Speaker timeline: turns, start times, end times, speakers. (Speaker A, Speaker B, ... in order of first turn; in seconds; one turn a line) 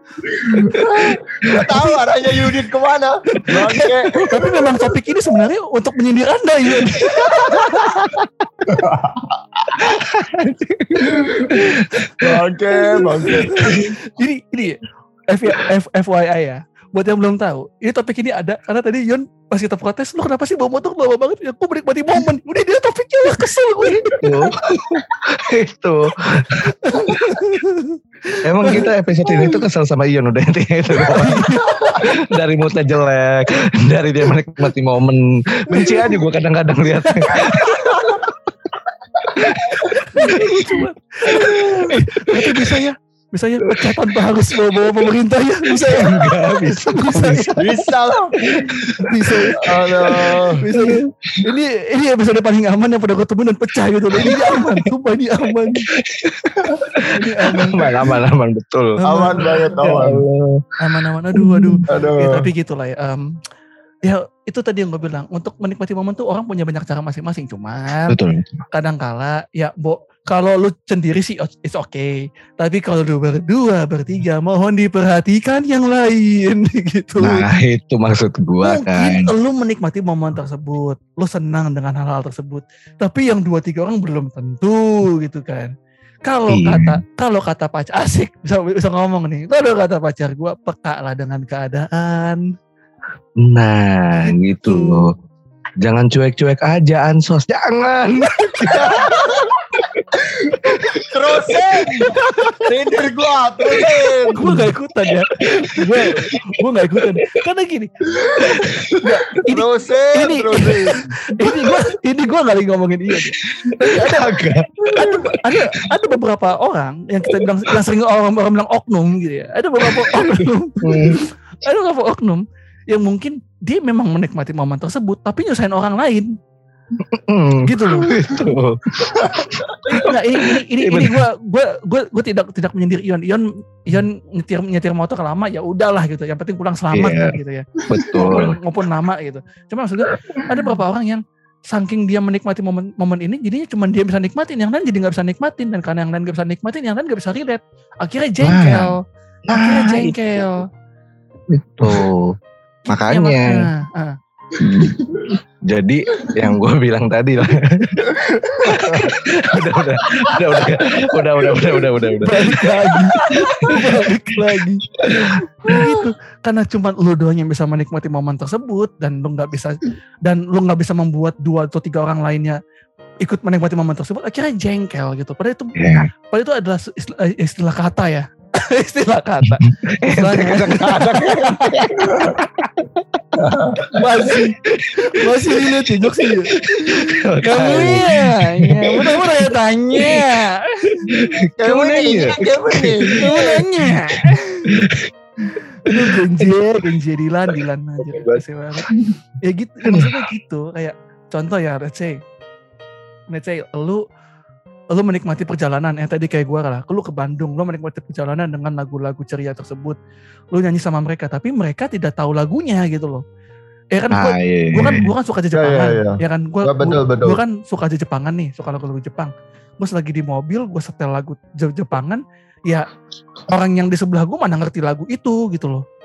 Speaker A: 0.3-4.7
Speaker B: 0.5-1.9
Speaker B: 3.5-4.5
Speaker C: 4.2-8.0
Speaker B: 6.8-8.5
Speaker A: 8.7-9.9
Speaker B: 9.8-12.1
Speaker A: 11.0-13.9
Speaker C: 12.8-24.2
Speaker A: 24.1-24.5
Speaker B: 24.2-27.4
Speaker C: 26.7-29.6
Speaker B: 28.4-38.3
Speaker C: 31.0-32.1
Speaker C: 35.7-36.2
Speaker C: 37.1-38.1
Speaker B: 39.3-40.5
Speaker A: 39.5-39.9
Speaker C: 39.7-47.7
Speaker A: 41.3-41.9
Speaker B: 45.7-47.8
Speaker A: 47.6-48.4
Speaker B: 48.4-51.4
Speaker C: 49.0-49.7
Speaker A: 49.6-50.6
Speaker C: 50.6-55.9
Speaker B: 54.2-54.9
Speaker B: 55.7-60.6
Speaker C: 57.1-57.9
Speaker C: 59.0-59.7
Speaker A: 59.0-60.2
Speaker C: 60.8-63.2
Speaker B: 61.3-61.8
Speaker A: 61.9-62.5
Speaker C: 64.0-68.2
Speaker B: 68.1-68.5
Speaker C: 68.7-77.4
Speaker B: 77.2-79.3
Speaker C: 78.6-85.7
Speaker C: 86.2-92.4
Speaker B: 86.5-87.0
Speaker B: 93.4-95.1
Speaker C: 94.2-95.1
Speaker B: 95.8-100.0
Speaker C: 98.6-98.9
Speaker A: 98.8-99.4
Speaker A: 100.3-104.4
Speaker B: 100.5-101.0
Speaker C: 102.2-102.7
Speaker C: 103.8-114.4
Speaker B: 104.4-107.3
Speaker A: 108.2-108.8
Speaker B: 108.4-108.9
Speaker A: 109.5-111.1
Speaker B: 111.4-111.7
Speaker B: 113.6-115.6
Speaker C: 114.9-126.3
Speaker B: 119.8-121.2
Speaker B: 127.0-131.2
Speaker C: 127.6-128.1
Speaker A: 129.2-129.4
Speaker C: 129.8-150.6
Speaker B: 136.9-137.3
Speaker B: 137.9-138.6
Speaker B: 148.4-148.9
Speaker B: 149.5-150.5
Speaker B: 151.5-152.3
Speaker B: 152.9-153.5
Speaker C: 153.1-154.2
Speaker B: 154.6-155.0
Speaker A: 154.8-155.3
Speaker B: 155.7-158.1
Speaker A: 158.1-159.2
Speaker B: 158.6-163.8
Speaker C: 162.2-172.6
Speaker A: 163.2-163.7
Speaker B: 165.0-165.9
Speaker C: 173.2-181.9
Speaker B: 175.8-176.1
Speaker B: 179.7-183.2
Speaker A: 182.0-182.4
Speaker A: 183.4-183.9
Speaker C: 183.9-191.2
Speaker B: 184.7-190.2
Speaker B: 191.0-193.3
Speaker A: 191.6-193.7
Speaker C: 193.2-194.7
Speaker B: 193.8-195.1
Speaker C: 195.8-198.9
Speaker B: 195.9-196.5
Speaker C: 199.4-202.2
Speaker B: 199.8-200.1
Speaker C: 203.3-204.0
Speaker C: 204.9-210.0
Speaker C: 210.5-213.2
Speaker C: 213.9-222.9
Speaker B: 214.1-215.1
Speaker A: 215.5-217.4
Speaker C: 223.5-225.8